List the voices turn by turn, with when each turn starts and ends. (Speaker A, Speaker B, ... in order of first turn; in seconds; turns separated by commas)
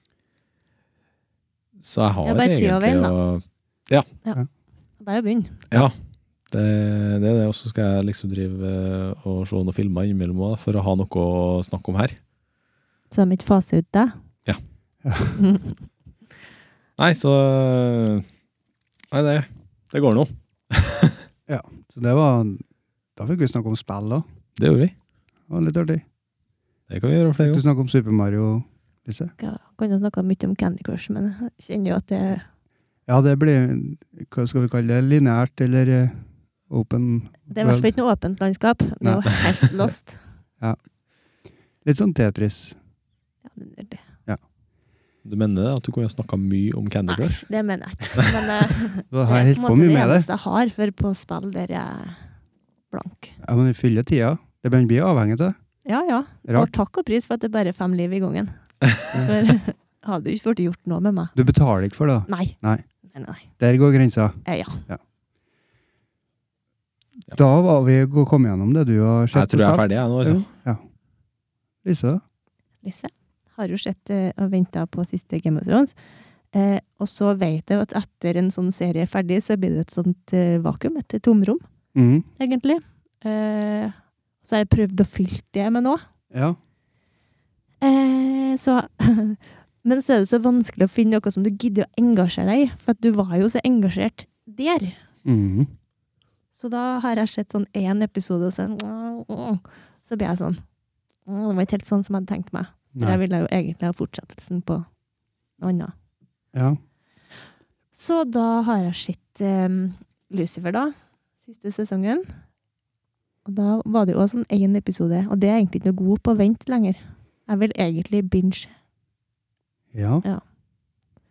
Speaker A: 1.8-4.1, Speaker B: 2.2-3.1, Speaker B: 5.0-5.7, Speaker A: 6.5-12.2, Speaker B: 13.1-14.1, Speaker C: 15.1-15.4, Speaker B: 15.4-15.7, Speaker A: 17.0-18.3, Speaker A: 19.1-21.2, Speaker C: 21.5-22.6, Speaker C: 23.2-24.2, Speaker A: 24.6-24.9, Speaker C: 25.5-26.0, Speaker A: 26.9-27.6, Speaker C: 27.4-29.3, Speaker B: 29.4-32.4, Speaker C: 33.1-37.9, Speaker B: 37.5-40.2, Speaker C: 39.0-39.3, Speaker C: 41.8-42.8, Speaker B: 43.5-44.0, Speaker A: 45.2-47.5, Speaker B: 47.1-52.2, Speaker C: 49.1-50.3, Speaker B: 52.9-53.4, Speaker C: 53.4-55.6, Speaker B: 55.9-61.3, Speaker C: 61.4-62.8, Speaker B: 62.3-62.6, Speaker B: 63.1-63.5, Speaker C: 63.6-65.0, Speaker B: 64.5-64.8, Speaker C: 67.3-70.8, Speaker A: 69.3-70.5, Speaker C: 71.8-72.2, Speaker B: 72.8-76.0, Speaker B: 76.5-81.6, Speaker C: 82.0-82.3, Speaker B: 82.4-86.0, Speaker C: 86.3-86.6, Speaker B: 87.8-95.0, Speaker C: 95.2-95.7, Speaker B: 96.5-100.6, Speaker B: 101.3-104.9, Speaker B: 105.6-105.9, Speaker C: 106.5-106.8, Speaker B: 108.0-112.3, Speaker B: 113.5-118.7, Speaker C: 119.9-120.2